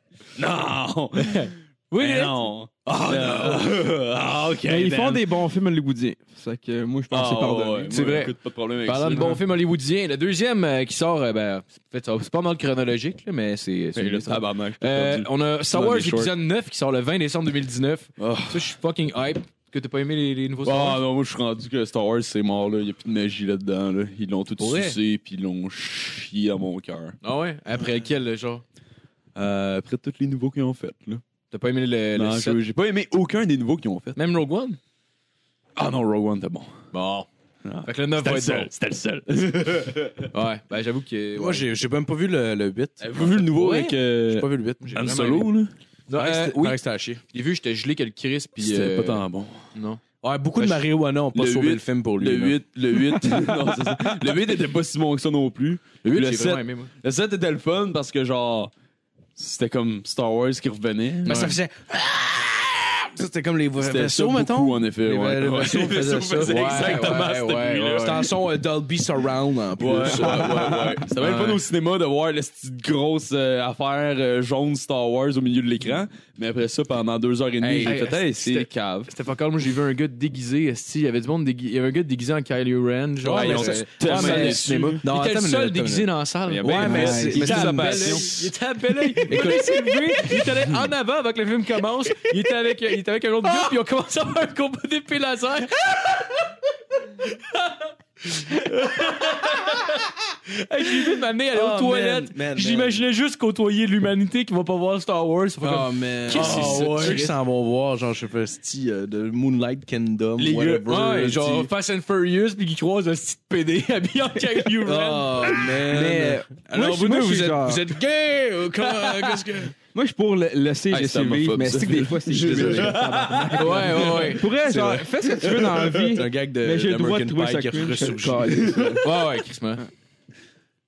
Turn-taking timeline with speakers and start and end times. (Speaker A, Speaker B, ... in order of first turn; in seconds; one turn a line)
Speaker A: 0.3-5.3
Speaker B: 1.2-3.7
Speaker C: 4.6-8.0
Speaker A: 7.1-9.4
Speaker B: 7.9-21.0
Speaker A: 13.9-16.3
Speaker A: 18.2-18.7
Speaker A: 20.6-27.2
Speaker D: 24.6-24.9
Speaker B: 27.2-28.6
Speaker A: 29.3-31.2
Speaker B: 31.5-32.6
Speaker A: 32.1-34.2
Speaker B: 34.1-34.8
Speaker A: 35.8-36.8
Speaker B: 36.9-37.3
Speaker A: 37.6-40.3
Speaker B: 37.8-38.7
Speaker B: 40.3-41.7
Speaker D: 41.4-45.1
Speaker A: 43.0-45.7
Speaker B: 44.8-45.5
Speaker B: 46.1-49.2
Speaker D: 46.1-47.2
Speaker A: 48.6-49.7
Speaker B: 49.7-50.0
Speaker D: 50.2-52.6
Speaker B: 50.6-50.8
Speaker A: 51.3-58.7
Speaker B: 56.0-56.9
Speaker A: 59.4-61.5
Speaker B: 61.2-61.6
Speaker D: 61.2-70.8
Speaker A: 63.8-68.2
Speaker B: 66.4-68.2
Speaker A: 69.8-79.1
Speaker B: 71.2-71.6
Speaker D: 77.6-78.0
Speaker B: 77.8-96.5
Speaker D: 83.2-86.1
Speaker A: 83.3-85.0
Speaker A: 86.5-88.3
Speaker D: 86.6-88.5
Speaker D: 89.1-90.5
Speaker B: 97.2-107.3
Speaker D: 101.5-103.0
Speaker D: 105.6-111.7
Speaker A: 106.3-107.2
Speaker A: 110.4-110.9
Speaker B: 110.8-115.8
Speaker D: 114.8-119.7
Speaker C: 115.8-117.8
Speaker B: 119.0-119.4
Speaker C: 119.9-129.1
Speaker A: 120.9-124.2
Speaker B: 123.5-124.5
Speaker D: 123.8-128.9
Speaker A: 128.6-129.0
Speaker B: 129.0-129.8